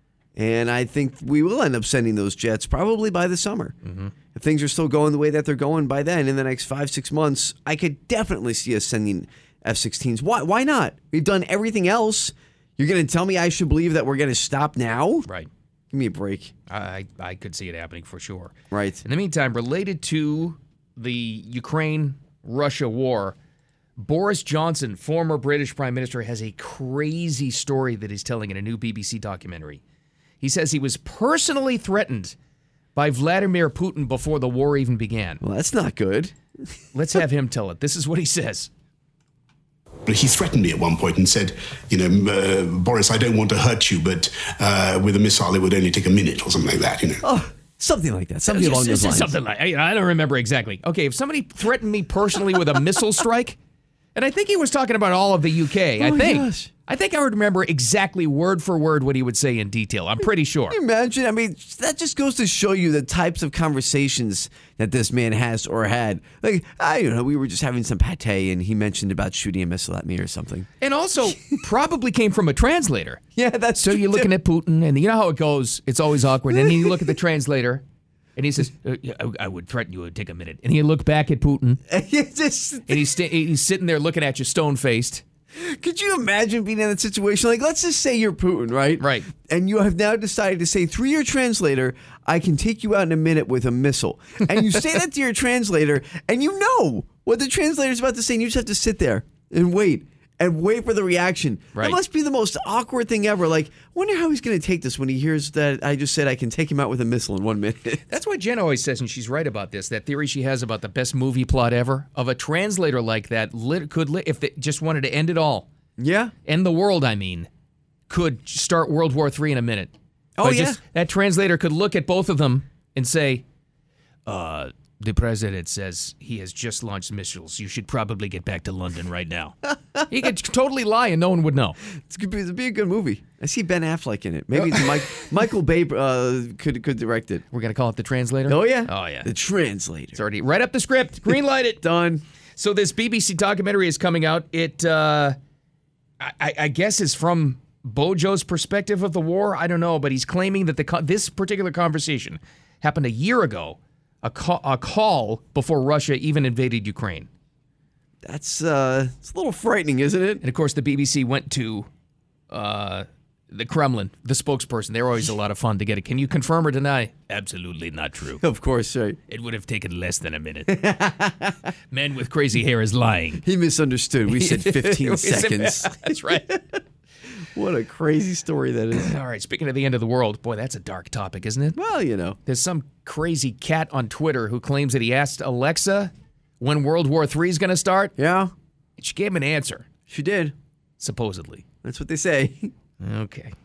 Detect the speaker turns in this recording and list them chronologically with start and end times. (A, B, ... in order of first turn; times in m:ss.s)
0:00.4-0:03.8 A
0:03.8-0:04.1 B
0:04.3-0:15.3 A
0:15.9-0:16.5 A
0:16.7-0:23.4 B
0:18.7-0:19.0 A
0:24.0-0:29.8 B
0:30.4-0:32.4 B
0:33.0-0:35.4 B
0:35.4-0:36.3 A
0:36.9-0:38.7 B
0:40.1-0:47.2 C
0:47.2-0:49.3 A
0:48.5-0:53.6 B
0:54.2-1:00.8 B
0:56.0-0:56.7 A
1:00.7-1:10.7 A
1:10.8-1:13.2 B
1:13.4-1:14.3 A
1:13.8-1:17.8 B
1:16.5-1:17.2 A
1:18.4-1:21.8 B
1:21.9-1:23.2 A
1:22.9-1:25.2 B
1:25.5-1:48.0 A
1:29.0-1:29.3 B
1:48.1-1:55.7 B
1:56.0-1:56.3 A
1:56.5-1:57.5 B
1:58.1-2:03.4 B
2:00.4-2:00.8 A
2:04.3-2:11.8 B
2:12.0-2:17.4 A
2:17.5-2:19.3 B
2:18.5-2:20.2 A
2:20.2-2:21.8 B
2:21.8-2:22.2 A
2:22.6-2:25.4 B
2:26.2-2:37.3 B
2:38.2-2:40.4 A
2:40.4-2:41.9 B
2:42.5-2:48.4 B
2:48.4-2:49.2 A
2:49.3-2:50.8 B
2:50.7-2:51.6 A
2:51.9-2:53.4 B
2:53.4-2:56.8 A
2:54.3-2:56.5 B
2:57.6-2:59.1 A
2:58.9-3:01.8 B
3:01.8-3:02.4 A
3:02.5-3:08.2 B
3:08.2-3:08.5 A
3:09.0-3:09.9 B
3:10.1-3:10.5 A
3:11.0-3:11.6 B
3:11.8-3:12.7 A
3:13.0-3:13.5 B